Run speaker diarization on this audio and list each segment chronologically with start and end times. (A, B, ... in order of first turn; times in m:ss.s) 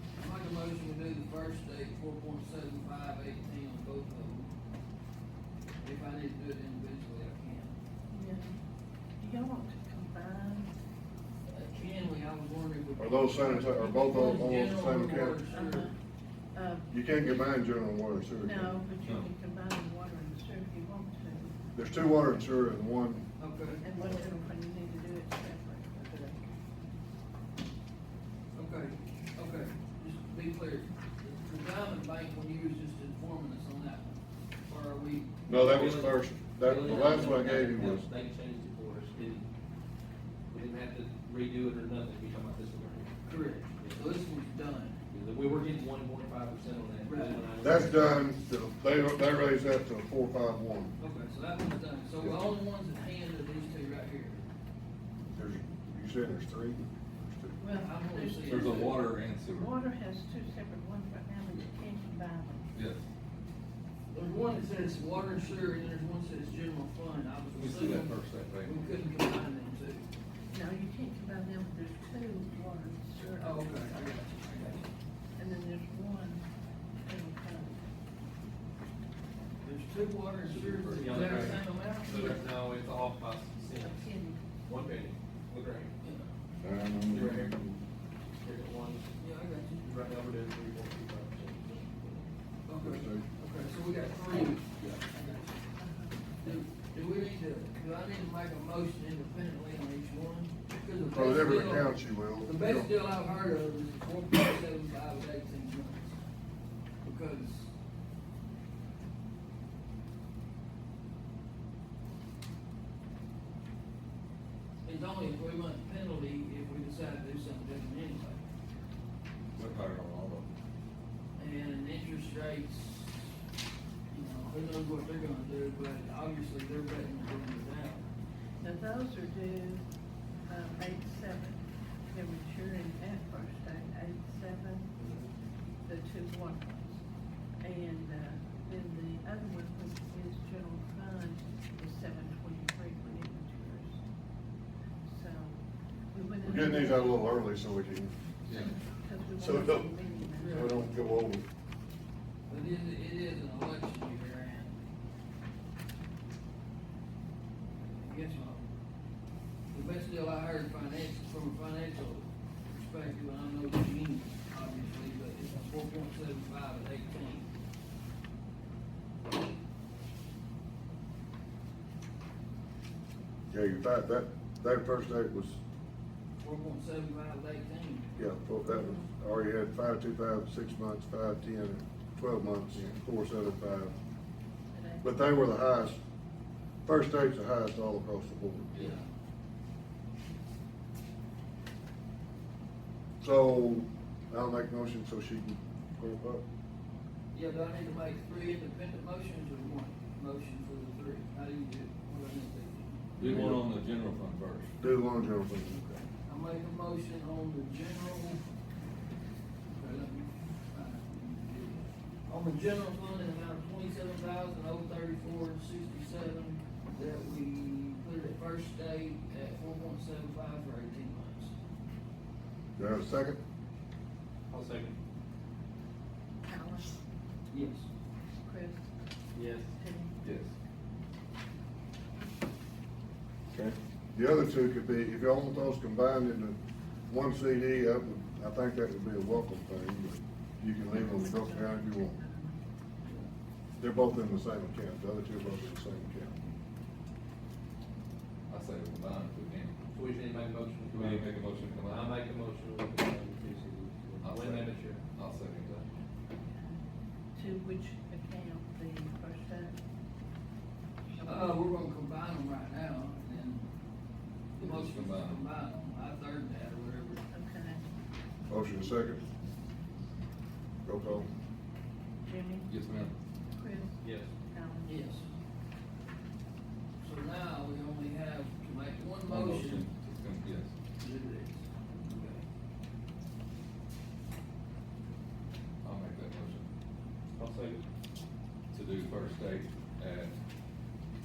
0:00.2-0:04.5 A
0:05.8-0:07.8 A
0:08.1-0:08.5 B
0:09.2-0:10.7 B
0:11.5-0:15.9 A
0:13.0-0:15.4 C
0:15.5-0:15.9 B
0:16.5-0:17.0 B
0:16.9-0:18.8 C
0:18.4-0:21.7 B
0:19.0-0:19.3 D
0:21.8-0:23.3 C
0:23.4-0:23.8 A
0:23.8-0:26.4 B
0:28.6-0:35.3 A
0:35.5-0:38.1 C
0:35.5-0:39.5 E
0:40.5-0:43.1 E
0:43.2-0:45.0 A
0:45.1-0:48.3 E
0:47.0-0:47.5 A
0:47.6-0:50.9 C
0:51.0-0:54.4 A
0:55.3-0:57.6 C
0:57.6-1:02.7 B
0:57.7-0:59.1 A
0:58.5-0:59.7 D
1:02.7-1:03.0 D
1:04.1-1:10.0 A
1:07.6-1:08.7 D
1:10.5-1:13.9 B
1:13.4-1:14.9 A
1:15.4-1:16.4 B
1:17.0-1:17.8 B
1:19.6-1:22.4 A
1:20.4-1:21.6 D
1:21.0-1:24.1 E
1:23.8-1:24.4 B
1:24.6-1:25.9 E
1:26.0-1:26.3 A
1:26.6-1:27.8 C
1:27.0-1:27.7 E
1:28.4-1:29.1 E
1:29.2-1:29.9 A
1:29.8-1:32.3 E
1:32.7-1:35.6 A
1:32.8-1:33.3 C
1:35.8-1:36.2 B
1:36.4-1:46.2 A
1:41.1-1:42.9 C
1:47.0-1:47.7 A
1:54.8-1:58.4 A
1:59.6-2:00.5 D
2:01.4-2:03.4 A
2:04.1-2:08.1 A
2:08.6-2:09.9 B
2:10.5-2:14.9 B
2:15.8-2:17.0 B
2:17.6-2:24.0 B
2:25.0-2:27.3 B
2:26.4-2:28.1 C
2:28.5-2:28.7 D
2:28.8-2:30.8 B
2:29.4-2:31.5 C
2:30.3-2:30.8 A
2:32.5-2:34.8 A
2:37.8-2:38.7 A
2:39.7-2:47.5 A
2:53.5-2:55.6 C
2:56.4-2:58.2 A
2:58.2-3:04.0 C
2:58.6-2:59.1 B
3:04.7-3:05.3 B
3:05.0-3:06.0 C
3:06.8-3:09.0 C
3:08.7-3:09.1 A
3:13.2-3:16.4 C
3:17.3-3:23.1 A
3:23.2-3:24.7 D
3:23.2-3:23.6 C
3:24.8-3:25.8 C
3:25.7-3:28.4 A
3:29.8-3:41.5 A
3:42.8-3:43.4 C
3:44.5-3:45.0 E
3:46.5-3:47.0 B
3:47.5-3:47.9 A
3:48.4-3:48.9 B
3:49.3-3:49.7 E
3:49.8-3:50.2 B
3:50.2-3:50.5 D
3:53.5-3:56.6 C
3:57.1-4:02.2 C
4:00.9-4:02.6 B
4:03.0-4:03.3 A
4:03.8-4:06.5 C
4:08.5-4:09.8 D
4:09.9-4:15.0 E
4:10.9-4:12.2 D
4:14.2-4:15.9 D
4:16.3-4:16.8 B
4:17.4-4:19.8 B
4:21.2-4:23.7 A
4:24.6-4:27.2 A
4:24.6-4:25.4 D
4:27.3-4:27.8 B
4:28.5-4:29.2 C
4:30.8-4:31.3 C
4:32.2-4:32.7 B
4:32.7-4:33.1 D
4:33.5-4:35.1 B
4:34.0-4:34.3 E
4:34.8-4:35.3 A
4:37.0-4:39.9 A
4:39.3-4:40.7 D
4:41.0-4:42.4 A
4:45.8-4:46.7 D
4:47.4-4:47.8 E
4:48.7-4:50.3 D